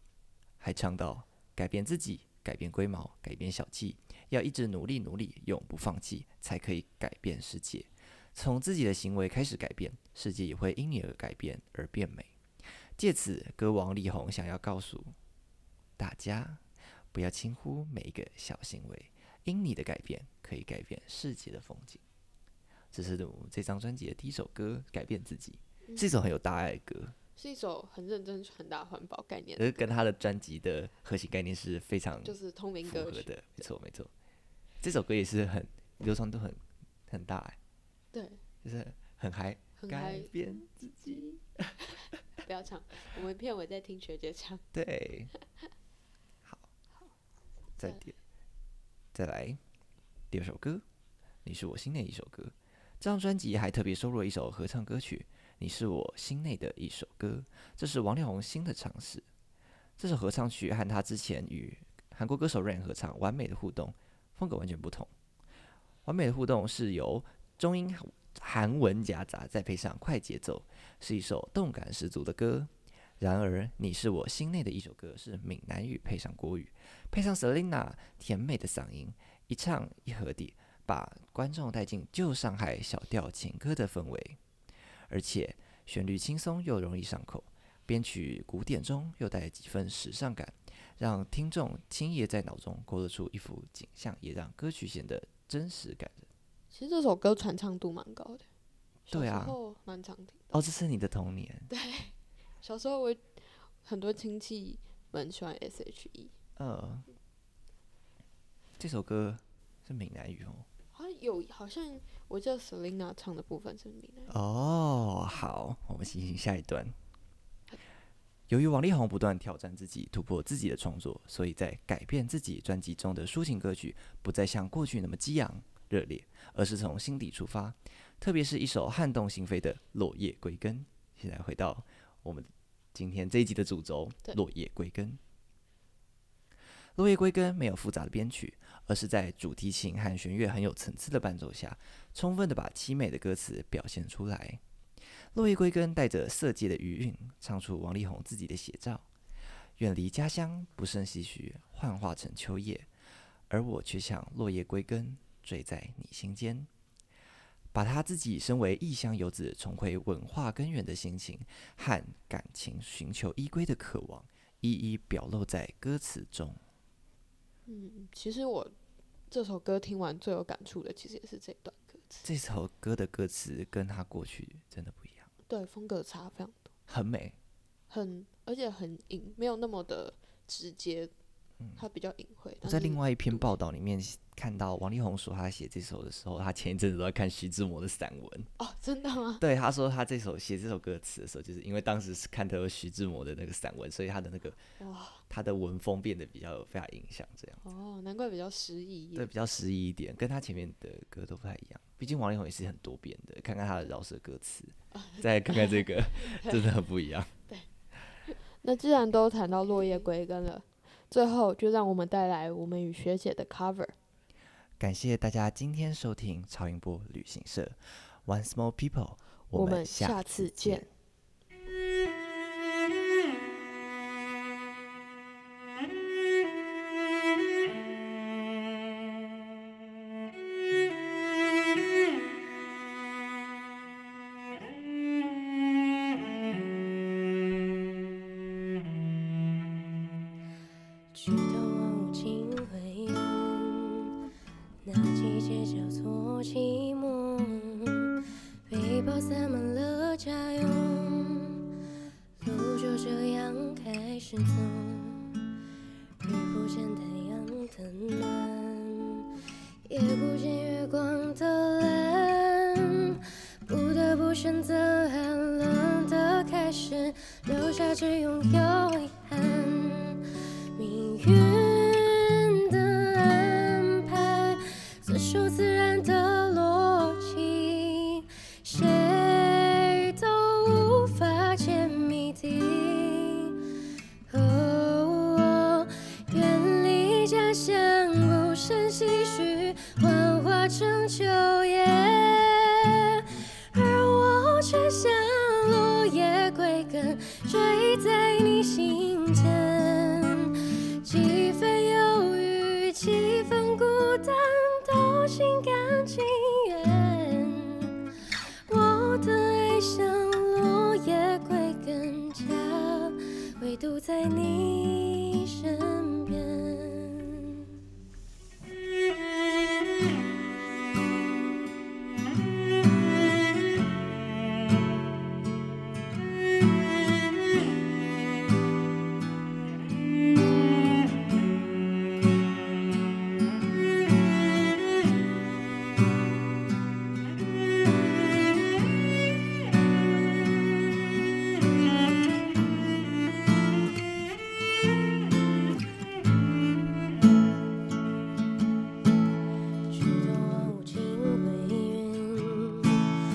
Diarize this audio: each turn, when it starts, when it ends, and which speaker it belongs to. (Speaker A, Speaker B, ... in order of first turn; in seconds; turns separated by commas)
Speaker A: 0.6-12.3, Speaker A: 13.0-15.1, Speaker A: 16.0-22.0, Speaker A: 22.9-27.1, Speaker B: 27.4-29.9, Speaker A: 29.6-32.4, Speaker B: 32.2-33.3, Speaker A: 32.9-34.1, Speaker A: 34.8-37.6, Speaker B: 38.1-38.4, Speaker A: 38.6-41.7, Speaker B: 39.8-44.6, Speaker A: 44.7-45.3, Speaker A: 47.8-48.1, Speaker A: 49.1-49.6, Speaker A: 50.3-50.8, Speaker A: 51.4-59.2, Speaker A: 60.0-65.1, Speaker A: 66.0-84.4, Speaker A: 85.1-96.2, Speaker B: 96.7-98.4, Speaker B: 99.1-100.6, Speaker A: 99.1-99.5, Speaker A: 100.5-101.7, Speaker B: 101.7-106.3, Speaker A: 106.6-107.1, Speaker A: 108.8-110.7, Speaker B: 110.9-114.3, Speaker A: 114.3-116.9, Speaker A: 118.5-135.2, Speaker A: 136.9-144.6, Speaker A: 145.3-149.1, Speaker A: 149.8-152.9, Speaker A: 153.5-156.7, Speaker A: 157.7-166.6, Speaker B: 167.7-168.7, Speaker B: 169.3-172.2, Speaker A: 172.2-175.3, Speaker B: 175.5-176.7, Speaker A: 176.9-177.3, Speaker B: 177.9-181.1, Speaker B: 181.8-183.5, Speaker A: 182.6-188.5, Speaker B: 188.6-189.4, Speaker A: 189.4-194.6, Speaker B: 194.8-195.2, Speaker A: 195.3-197.6, Speaker B: 197.6-199.3, Speaker A: 199.2-207.3, Speaker B: 204.9-206.7, Speaker B: 208.3-213.9, Speaker A: 214.8-220.9, Speaker B: 219.5-220.8, Speaker C: 241.1-244.1, Speaker C: 244.8-251.7, Speaker C: 252.4-255.3, Speaker C: 256.2-259.3, Speaker C: 259.9-283.6, Speaker C: 284.3-308.0, Speaker C: 308.7-317.7, Speaker C: 349.9-353.1